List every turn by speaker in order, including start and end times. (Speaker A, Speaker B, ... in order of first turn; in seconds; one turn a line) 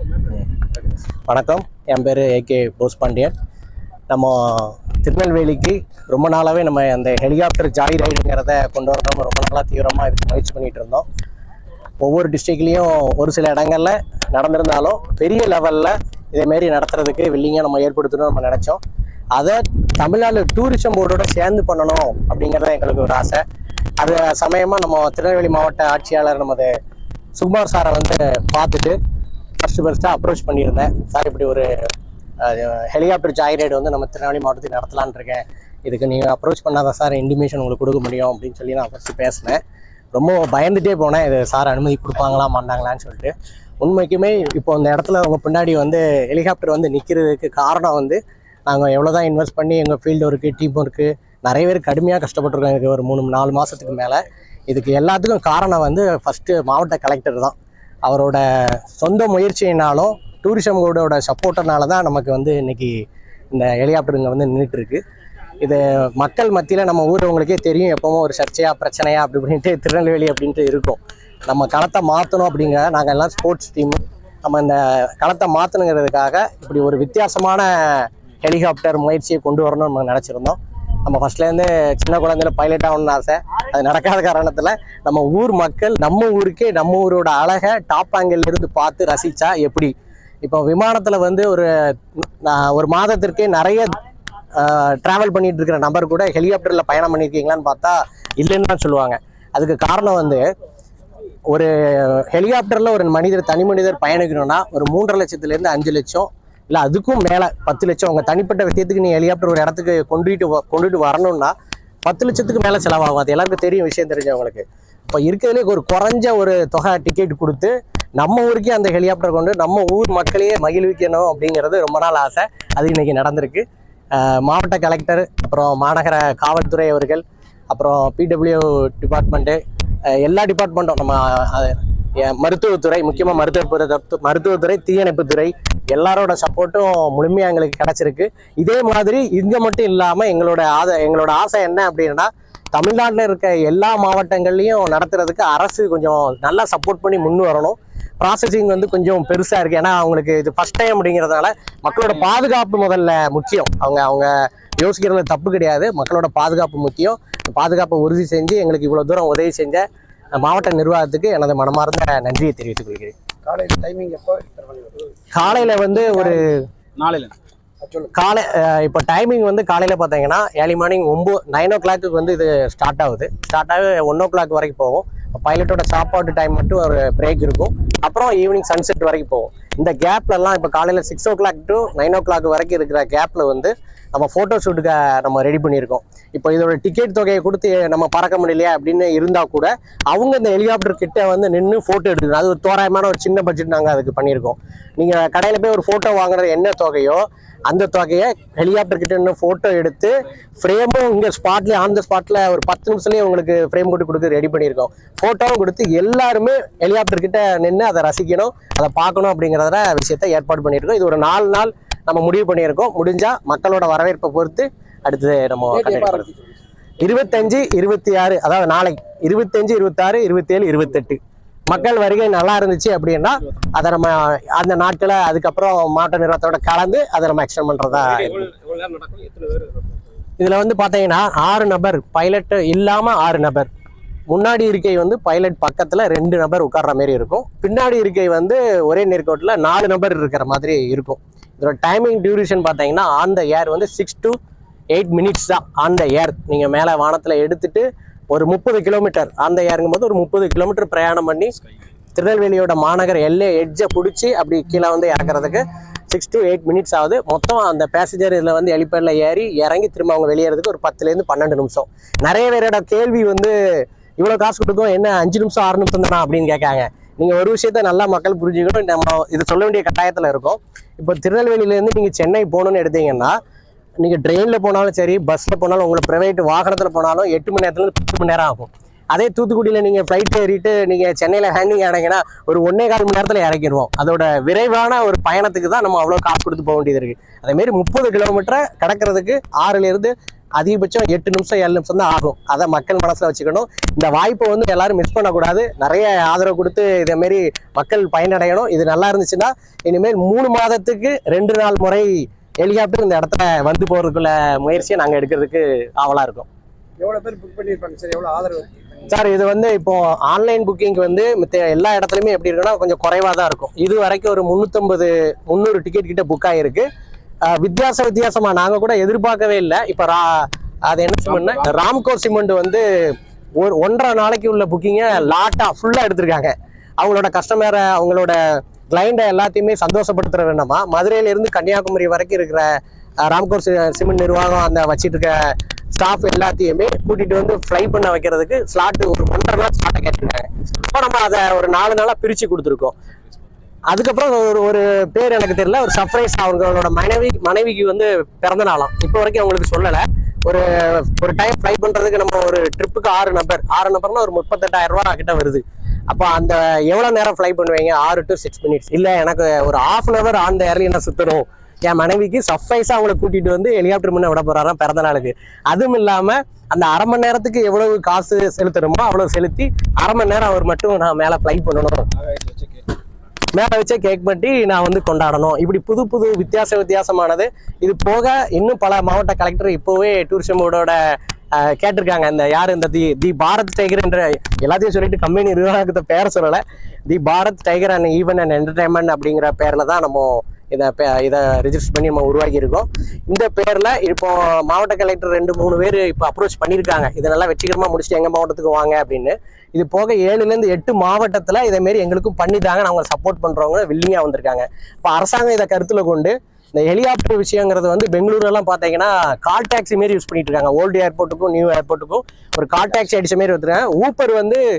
Speaker A: 0.2-3.3
Speaker A: 4.1-11.1
Speaker A: 12.0-18.8
Speaker A: 19.3-23.4
Speaker A: 24.0-26.7
Speaker A: 27.3-29.0
Speaker A: 29.6-31.9
Speaker A: 32.4-39.6
Speaker A: 40.1-65.0
Speaker A: 65.6-94.0
Speaker A: 94.5-100.4
Speaker A: 101.5-111.5
Speaker A: 112.0-163.1
Speaker B: 163.4-165.1
Speaker A: 165.3-166.7
Speaker B: 165.9-166.4
Speaker C: 167.0-167.3
Speaker B: 167.8-168.1
Speaker A: 168.1-216.3
Speaker B: 215.7-216.4
Speaker A: 217.0-228.5
Speaker C: 228.1-230.0
Speaker A: 230.4-233.7
Speaker A: 234.3-244.4
Speaker A: 244.9-251.5
Speaker A: 252.1-273.4
Speaker A: 274.0-306.5
Speaker B: 307.0-308.9
Speaker A: 309.1-316.9
Speaker A: 317.4-322.9
Speaker C: 321.4-321.6
Speaker A: 323.6-332.7
Speaker A: 333.2-342.9
Speaker A: 343.9-372.1
Speaker C: 372.2-372.9
Speaker A: 373.5-381.0
Speaker A: 381.5-414.6